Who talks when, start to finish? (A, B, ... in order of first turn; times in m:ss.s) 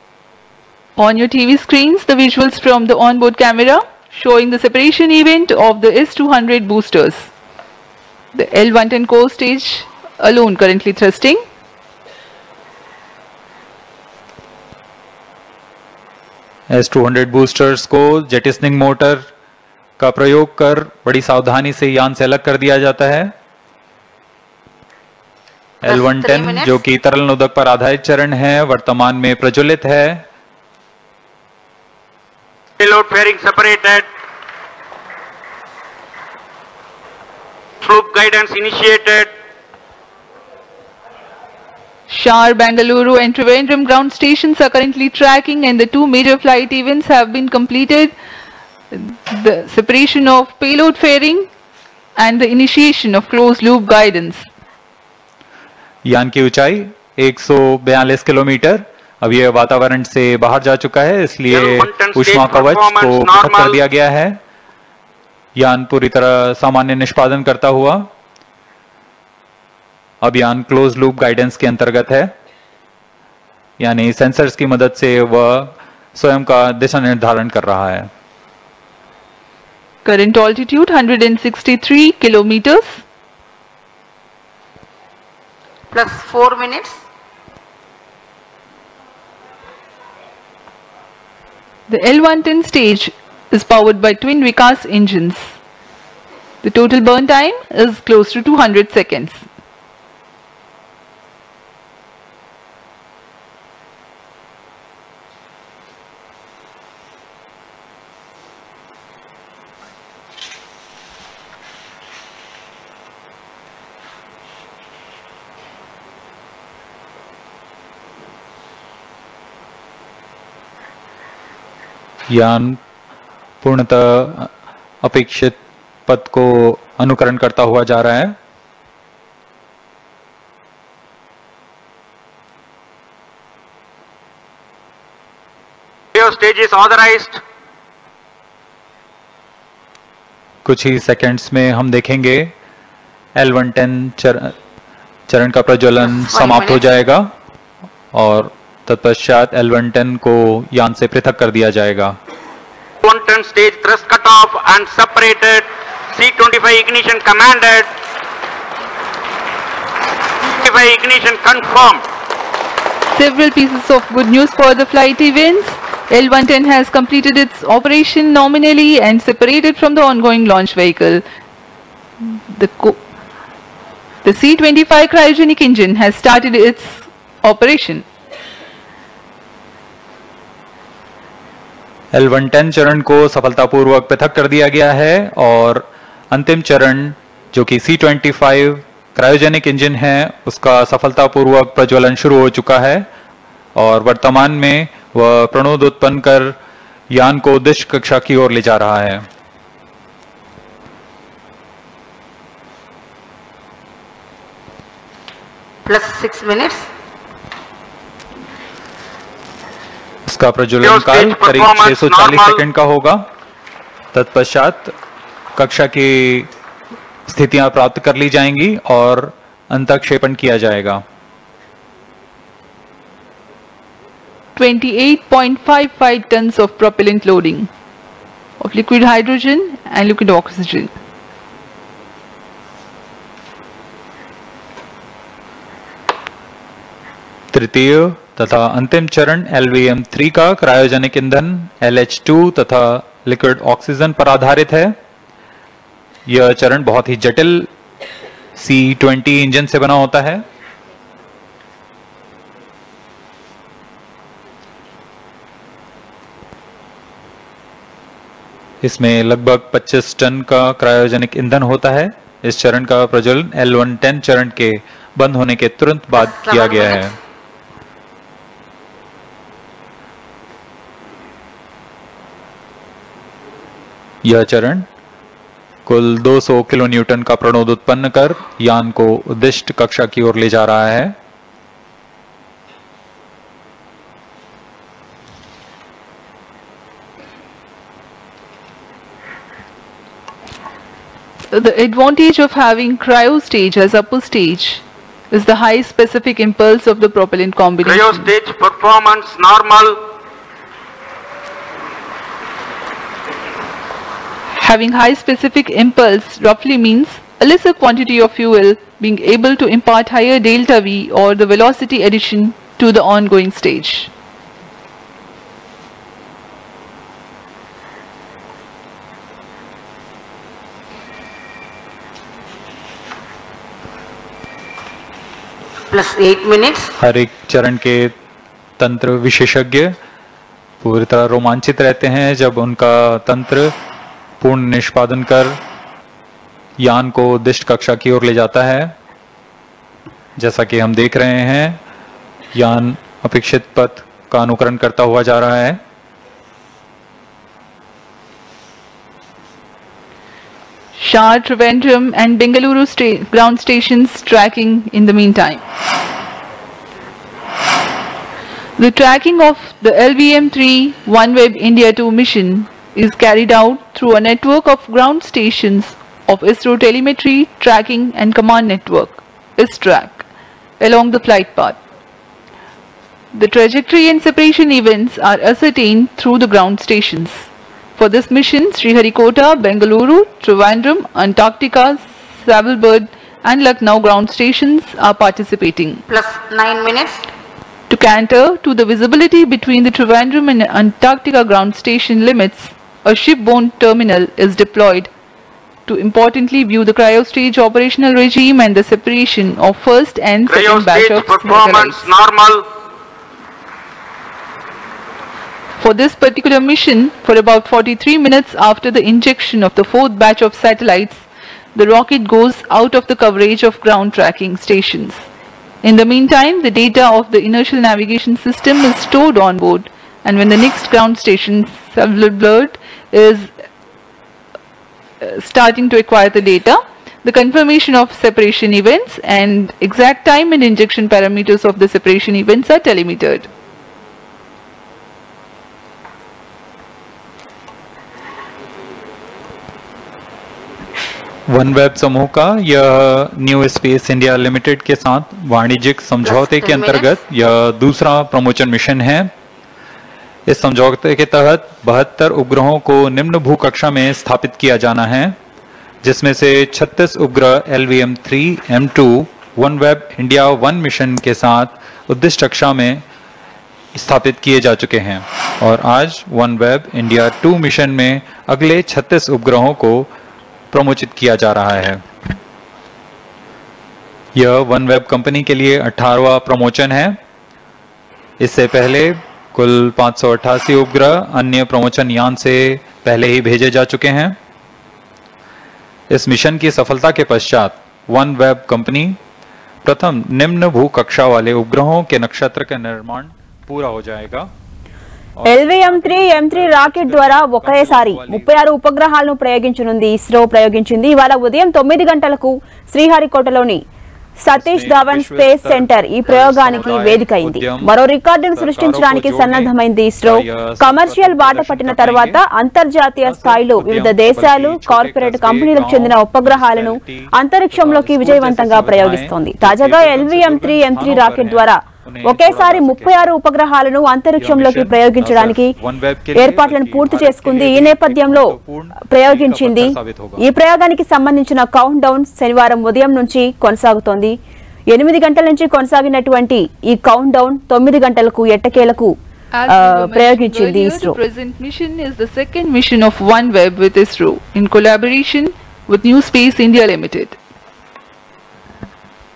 0:01.0-0:07.3 A
0:08.3-0:11.4 A
0:16.7-0:19.2 B
0:20.0-0:23.3 B
0:25.8-0:30.2 B
0:25.8-0:26.7 C
0:32.8-0:34.0 D
0:37.8-0:39.3 D
0:42.1-0:48.1 A
0:48.9-0:51.5 A
0:52.2-0:54.5 A
0:56.0-1:04.4 B
1:01.5-1:03.8 D
1:05.6-1:08.1 B
1:10.2-1:12.3 B
1:13.8-1:18.1 B
1:20.0-1:23.0 A
1:25.9-1:27.0 C
1:31.9-1:35.5 A
1:36.6-1:39.4 A
2:02.3-2:02.8 B
2:03.6-2:04.5 B
2:05.0-2:08.4 B
2:16.1-2:17.4 D
2:20.6-2:22.5 B
2:23.4-2:24.5 B
2:25.3-2:27.3 B
2:26.0-2:26.8 C
2:28.1-2:32.2 B
2:33.0-2:37.9 D
2:40.5-2:42.0 D
2:43.1-2:51.2 A
2:52.2-2:53.0 A
2:54.2-2:58.0 A
3:02.1-3:13.0 B
3:13.8-3:16.5 B
3:17.1-3:19.2 B
3:25.8-3:26.9 C
3:30.2-3:33.2 B
3:30.8-3:32.6 D
3:34.1-3:34.9 B
3:35.6-3:36.5 B
3:37.3-3:41.0 B
3:44.6-3:47.7 A
3:48.6-3:50.9 A
3:57.5-4:05.0 B
4:06.3-4:07.7 B
4:08.6-4:10.4 B
4:18.8-4:27.2 B
4:26.2-4:27.0 C
4:34.2-4:34.8 B
4:35.8-4:41.1 B
4:51.5-4:58.3 A
4:57.9-5:00.0 D
5:04.5-5:14.1 A
5:25.9-5:26.9 C
5:27.0-5:28.1 B
5:28.8-5:29.9 B
5:30.8-5:33.7 B
5:34.4-5:35.6 B
5:36.8-5:38.9 B
5:40.4-5:41.8 B
5:42.5-5:45.8 B
5:51.0-5:55.6 A
5:58.8-6:10.2 A
6:10.8-6:11.8 A
6:13.3-6:26.0 A
6:26.1-6:27.3 C
6:27.9-6:35.1 A
6:35.9-6:42.1 A
6:40.4-6:42.6 D
6:45.8-6:55.2 A
6:55.8-7:03.5 A
7:05.2-7:13.5 A
7:21.5-7:29.3 B
7:26.2-7:27.1 C
7:30.5-7:35.4 B
7:36.0-7:43.0 B
7:43.9-7:50.1 B
7:50.7-7:52.0 B
7:54.4-7:57.2 B
7:58.4-8:04.4 B
8:06.1-8:09.2 B
8:09.8-8:14.5 B
8:15.4-8:18.6 B
8:15.4-8:23.8 E
8:24.4-8:45.7 E
8:24.5-8:27.9 B
8:26.7-8:27.1 C
8:28.5-8:32.4 B
8:33.2-8:43.2 B
8:44.4-8:50.4 B
8:46.3-8:48.5 E
8:49.1-8:54.3 E
8:54.9-8:59.1 E
8:59.5-9:07.4 A
8:59.7-9:01.2 E